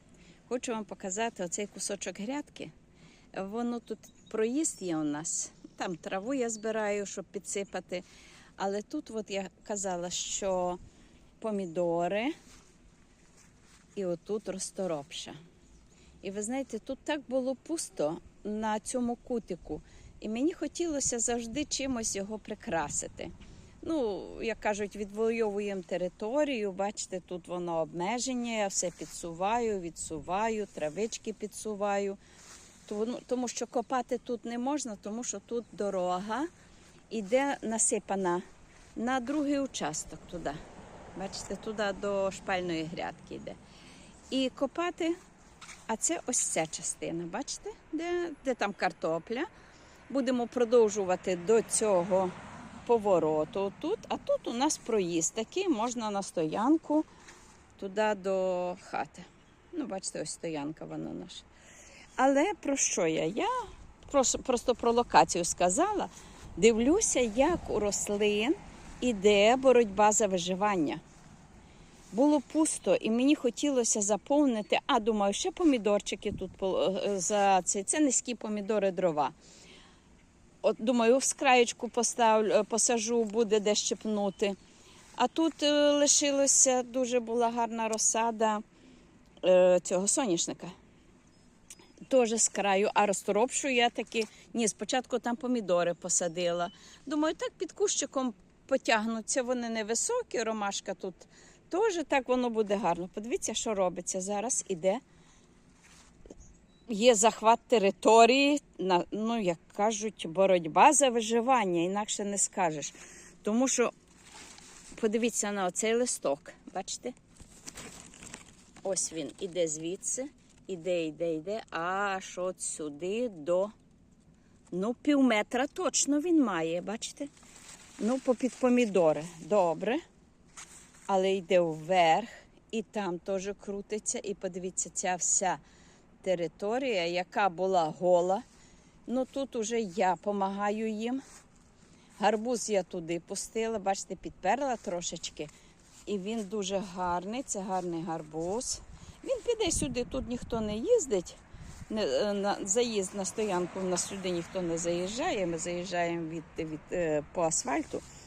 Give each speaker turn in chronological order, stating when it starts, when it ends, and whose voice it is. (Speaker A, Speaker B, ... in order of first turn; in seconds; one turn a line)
Speaker A: 0.5-2.7
Speaker A: 3.3-8.0
Speaker A: 8.6-10.8
Speaker A: 11.4-12.3
Speaker A: 13.9-15.4
Speaker A: 16.2-32.2
Speaker A: 32.9-36.5
Speaker A: 37.1-38.4
Speaker A: 39.0-40.6
Speaker A: 41.1-43.6
Speaker A: 44.3-45.1
Speaker A: 45.9-49.5
Speaker A: 50.1-52.3
Speaker A: 52.8-57.1
Speaker A: 57.8-61.5
Speaker A: 62.2-63.5
Speaker A: 64.0-71.0
Speaker A: 72.1-79.3
Speaker A: 80.6-84.6
Speaker A: 85.2-88.6
Speaker A: 89.4-90.7
Speaker A: 92.1-105.0
Speaker A: 106.9-113.9
Speaker A: 114.9-117.1
Speaker A: 118.8-123.7
Speaker A: 124.7-127.3
Speaker A: 128.0-130.0
Speaker A: 131.1-135.6
Speaker A: 136.2-138.4
Speaker A: 139.1-141.2
Speaker A: 142.2-145.5
Speaker A: 146.1-158.0